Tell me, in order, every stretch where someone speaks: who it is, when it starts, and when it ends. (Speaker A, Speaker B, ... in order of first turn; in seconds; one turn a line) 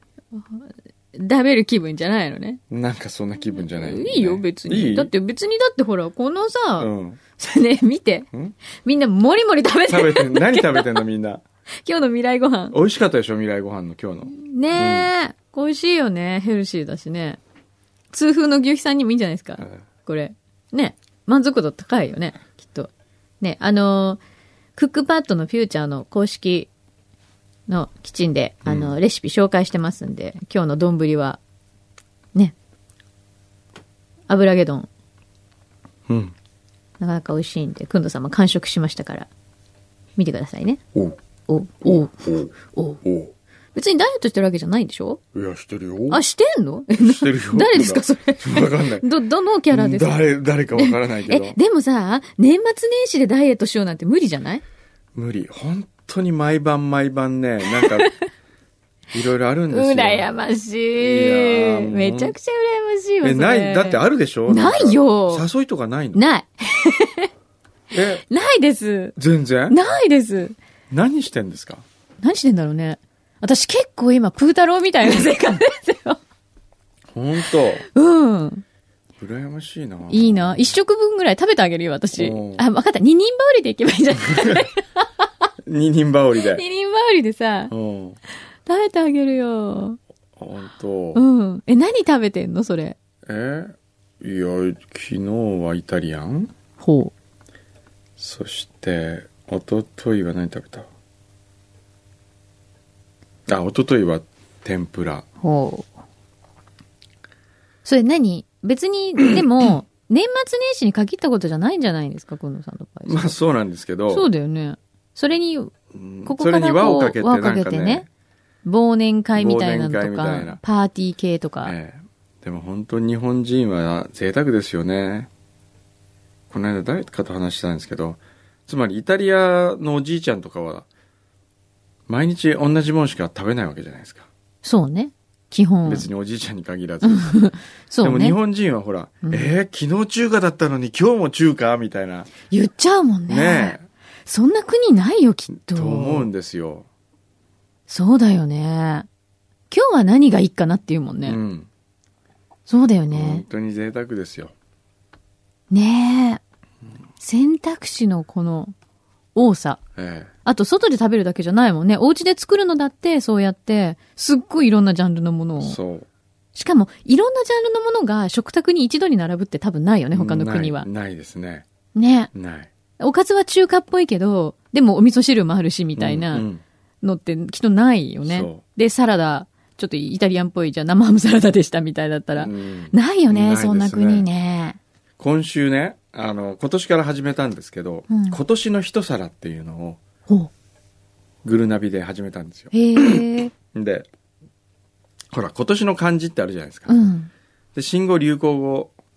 Speaker A: 0.3-2.6
Speaker B: 2.7-5.1
Speaker A: 3.6-11.0
Speaker B: 6.8-7.2
Speaker B: 9.9-11.4
Speaker A: 11.8-12.8
Speaker B: 12.7-15.1
Speaker A: 14.3-17.4
Speaker A: 18.1-22.9
Speaker A: 23.4-24.2
Speaker A: 24.8-26.7
Speaker A: 27.7-31.4
Speaker B: 28.6-28.9
Speaker A: 34.3-34.9
Speaker B: 36.1-36.3
Speaker A: 37.0-39.3
Speaker A: 40.2-40.8
Speaker A: 41.5-43.0
Speaker B: 41.8-42.5
Speaker B: 43.0-43.3
Speaker A: 43.7-45.2
Speaker B: 45.3-46.2
Speaker A: 46.1-50.2
Speaker B: 47.0-49.1
Speaker B: 49.7-51.6
Speaker A: 50.8-54.6
Speaker B: 55.1-58.1
Speaker B: 59.1-60.3
Speaker A: 59.7-65.5
Speaker B: 61.0-62.3
Speaker B: 63.2-66.2
Speaker A: 66.1-67.3
Speaker B: 67.9-68.2
Speaker A: 68.3-69.2
Speaker B: 69.2-69.8
Speaker A: 69.7-70.5
Speaker B: 70.9-71.8
Speaker A: 72.2-76.2
Speaker B: 77.1-77.8
Speaker A: 77.9-78.6
Speaker B: 79.2-80.8
Speaker A: 80.1-85.0
Speaker B: 82.2-82.6
Speaker B: 84.3-84.7
Speaker B: 85.6-86.6
Speaker A: 86.4-87.7
Speaker B: 87.7-88.2
Speaker A: 88.7-90.0
Speaker B: 90.4-91.2
Speaker A: 91.1-93.0
Speaker B: 93.2-96.5
Speaker A: 96.8-97.1
Speaker B: 98.2-100.9
Speaker B: 103.5-105.2
Speaker A: 105.4-105.9
Speaker A: 107.8-113.4
Speaker B: 113.1-114.3
Speaker A: 114.1-115.7
Speaker B: 115.9-118.1
Speaker A: 116.2-118.0
Speaker A: 118.6-121.7
Speaker B: 119.3-120.6
Speaker B: 121.6-125.3
Speaker B: 126.5-130.9
Speaker B: 132.1-134.3
Speaker A: 134.6-136.1
Speaker B: 135.8-137.4
Speaker A: 137.0-138.4
Speaker B: 138.0-142.3
Speaker A: 139.2-139.5
Speaker A: 142.5-146.3
Speaker B: 143.3-143.8
Speaker B: 145.5-146.9
Speaker A: 147.9-149.1
Speaker A: 149.7-151.4
Speaker B: 151.2-151.7
Speaker A: 152.7-153.4
Speaker B: 153.1-154.5
Speaker A: 155.7-156.4
Speaker A: 157.2-158.7
Speaker A: 159.3-159.8
Speaker B: 159.9-160.3
Speaker A: 160.4-165.8
Speaker B: 165.6-166.1
Speaker A: 166.5-170.9
Speaker B: 170.1-171.6
Speaker A: 171.9-172.3
Speaker B: 172.3-172.7
Speaker A: 173.0-176.5
Speaker B: 176.0-176.6
Speaker A: 177.0-184.8
Speaker B: 178.2-178.6
Speaker B: 182.3-184.3
Speaker B: 185.2-190.0
Speaker A: 188.1-188.4
Speaker B: 191.4-194.1
Speaker A: 192.7-193.5
Speaker B: 195.3-197.1
Speaker A: 196.9-197.3
Speaker B: 197.7-198.9